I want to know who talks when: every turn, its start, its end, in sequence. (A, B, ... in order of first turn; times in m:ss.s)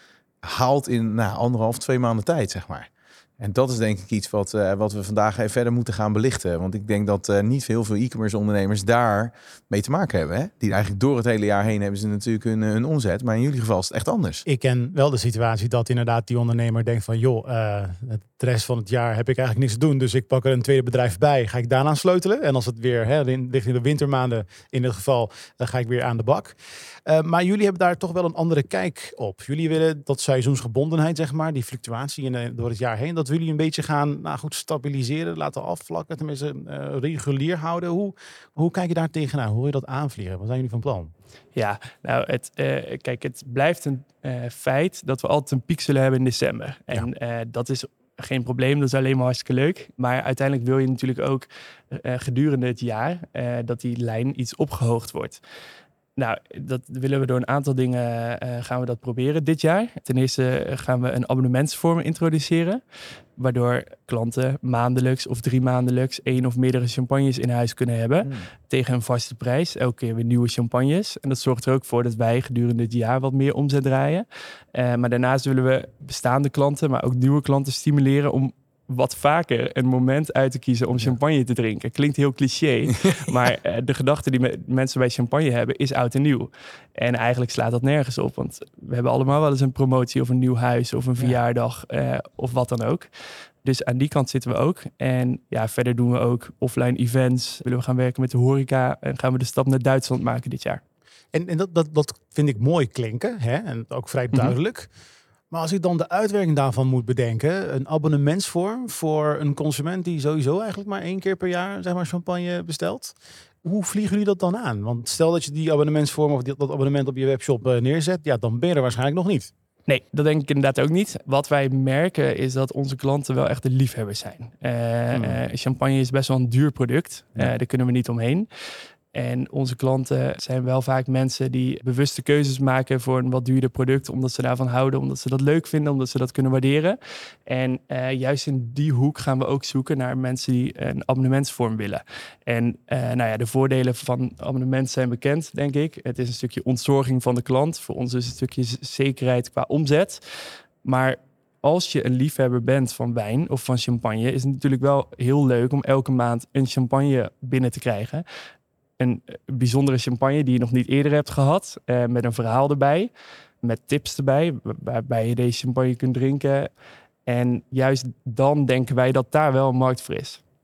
0:00.4-0:14.4 A
0:14.4-0:41.1 B
0:41.5-0:55.4 C
0:56.2-1:02.8 C
1:03.4-1:33.1 C
1:33.6-1:40.8 C
1:41.3-1:44.9 B
1:45.5-1:59.5 B
1:59.9-2:08.5 C
2:05.1-2:05.4 B
2:09.1-2:30.2 C
2:30.8-2:38.2 C
2:39.0-2:43.1 C
2:43.6-2:46.7 C
2:47.2-2:50.4 C